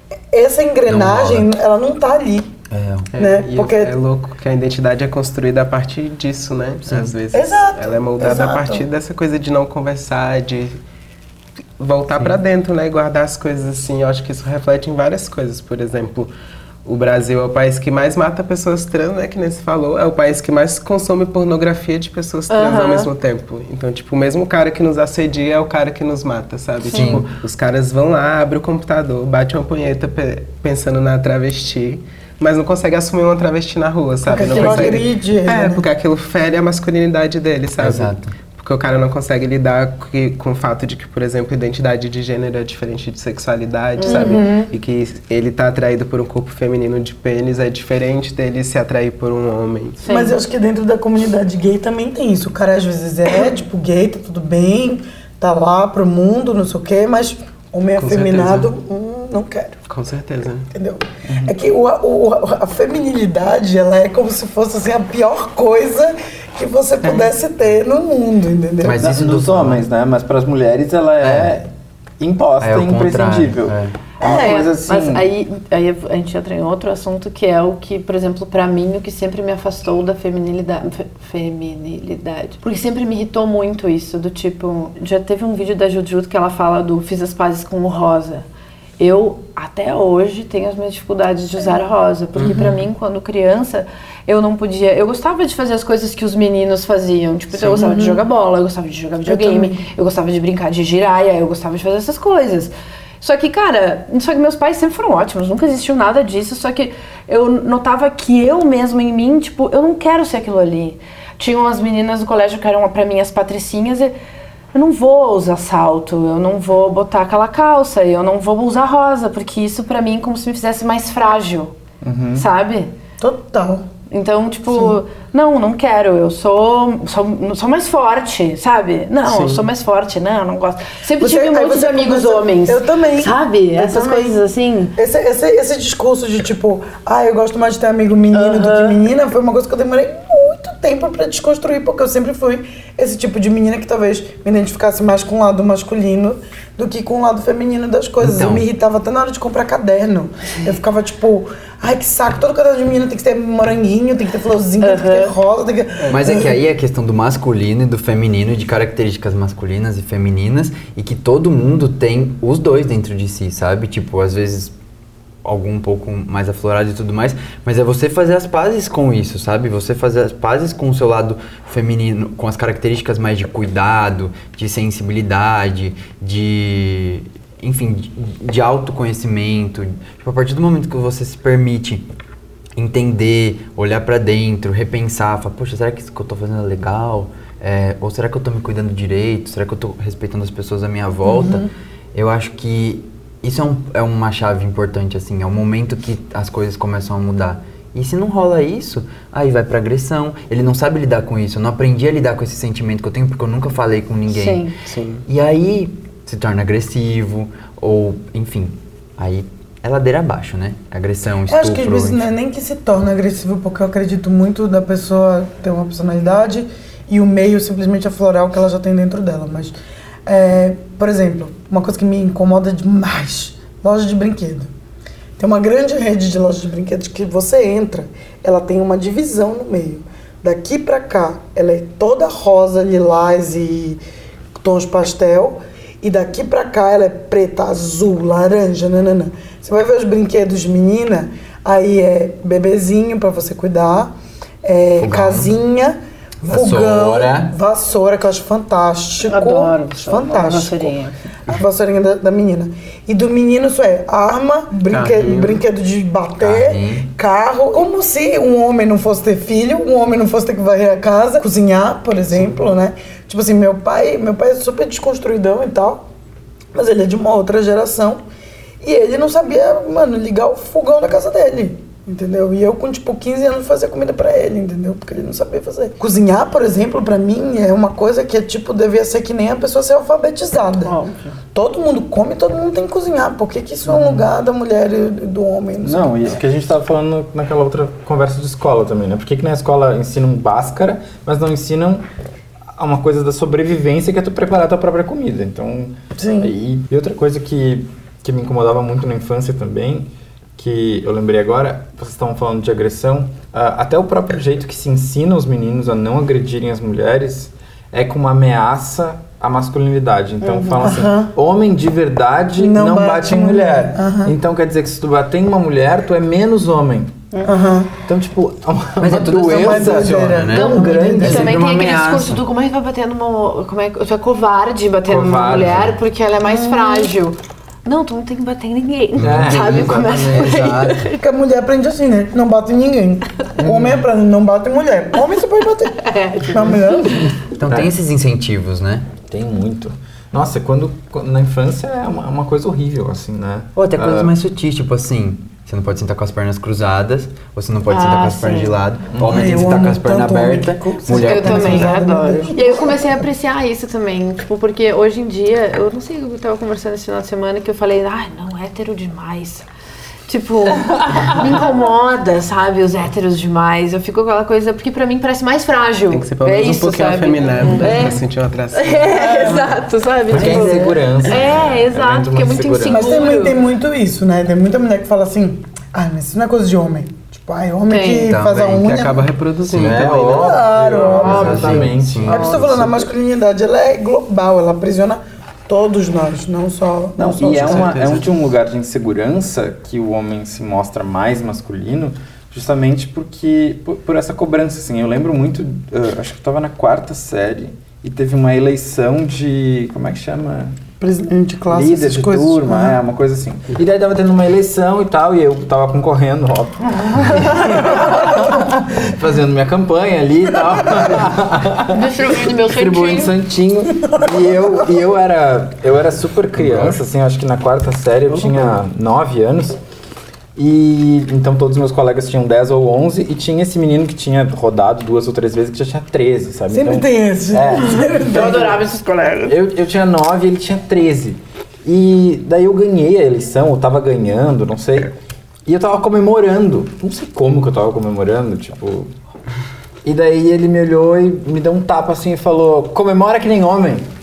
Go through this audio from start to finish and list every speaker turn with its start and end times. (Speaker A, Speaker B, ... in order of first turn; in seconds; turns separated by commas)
Speaker A: 0.3-2.5, Speaker B: 0.9-1.5, Speaker B: 2.7-3.1, Speaker C: 3.1-10.8, Speaker A: 3.1-4.0, Speaker B: 6.9-7.1, Speaker A: 7.3-8.8, Speaker C: 11.8-16.3, Speaker C: 16.8-50.0, Speaker D: 22.5-23.1, Speaker B: 26.8-27.2, Speaker D: 26.9-27.2, Speaker A: 34.3-35.8, Speaker D: 34.3-35.0, Speaker B: 37.8-38.3, Speaker D: 44.0-44.4, Speaker A: 44.0-44.7, Speaker D: 50.0-50.3, Speaker A: 50.1-59.8, Speaker C: 58.0-58.7, Speaker C: 59.9-60.7, Speaker A: 60.7-69.0, Speaker E: 61.3-61.5, Speaker C: 67.0-67.3, Speaker B: 68.8-69.8, Speaker E: 69.0-75.2, Speaker B: 71.2-71.5, Speaker B: 72.6-74.0, Speaker A: 74.2-74.6, Speaker D: 74.2-88.5, Speaker D: 89.0-114.1, Speaker B: 92.4-92.8, Speaker A: 97.7-98.2, Speaker A: 99.2-99.8, Speaker D: 114.7-121.7, Speaker E: 122.0-122.5, Speaker D: 122.3-122.9, Speaker A: 123.2-123.8, Speaker D: 124.1-134.9, Speaker A: 124.7-125.0, Speaker C: 129.2-129.6, Speaker A: 131.2-134.4, Speaker A: 134.9-156.6, Speaker D: 138.3-139.1, Speaker B: 148.2-148.7, Speaker D: 154.8-155.4, Speaker B: 156.1-164.7, Speaker B: 165.4-182.1, Speaker B: 182.8-204.7, Speaker A: 191.2-191.7, Speaker D: 204.3-204.8, Speaker C: 204.8-205.2, Speaker B: 205.3-212.2, Speaker A: 211.5-219.7, Speaker A: 220.2-224.7, Speaker A: 225.4-234.0, Speaker A: 234.6-244.1, Speaker A: 244.6-266.0, Speaker B: 245.0-245.5, Speaker B: 246.4-247.5, Speaker D: 249.2-251.1, Speaker C: 254.9-255.6, Speaker B: 256.4-257.1, Speaker A: 266.7-268.2, Speaker A: 268.8-280.9, Speaker D: 280.8-281.2, Speaker A: 281.5-286.2, Speaker E: 283.9-284.2, Speaker E: 285.8-292.0, Speaker E: 292.7-317.2, Speaker A: 296.2-296.5, Speaker A: 310.8-311.3, Speaker A: 312.6-314.3, Speaker A: 317.4-317.9, Speaker E: 318.1-321.6, Speaker B: 319.0-322.4, Speaker A: 319.6-321.4, Speaker D: 320.5-331.2, Speaker E: 325.1-326.0, Speaker A: 326.4-327.1, Speaker B: 329.2-331.1, Speaker E: 329.2-330.7, Speaker A: 331.1-337.4, Speaker E: 333.6-334.1, Speaker D: 336.0-337.2, Speaker B: 337.5-339.1, Speaker E: 337.7-337.9, Speaker E: 339.3-344.4, Speaker B: 343.8-352.1, Speaker D: 347.9-348.8, Speaker E: 349.1-349.6, Speaker A: 349.2-353.2, Speaker D: 351.1-359.6, Speaker D: 360.3-373.6, Speaker C: 366.1-369.1, Speaker A: 369.1-369.8, Speaker E: 370.3-373.2, Speaker B: 370.3-370.9, Speaker A: 372.9-379.3, Speaker D: 377.9-378.3, Speaker B: 378.2-378.9, Speaker C: 378.8-381.4, Speaker B: 379.7-380.3, Speaker E: 379.7-383.0, Speaker A: 380.1-388.0, Speaker D: 381.1-382.6, Speaker B: 381.1-382.4, Speaker E: 387.3-400.8, Speaker C: 387.6-388.3, Speaker A: 401.0-402.9, Speaker E: 401.7-419.8, Speaker A: 407.5-408.8, Speaker D: 411.9-413.4, Speaker A: 413.9-414.9, Speaker B: 416.6-416.9, Speaker E: 420.6-428.9, Speaker A: 426.7-428.8, Speaker D: 428.0-429.6, Speaker E: 429.4-435.1, Speaker E: 435.6-439.1, Speaker E: 440.0-444.1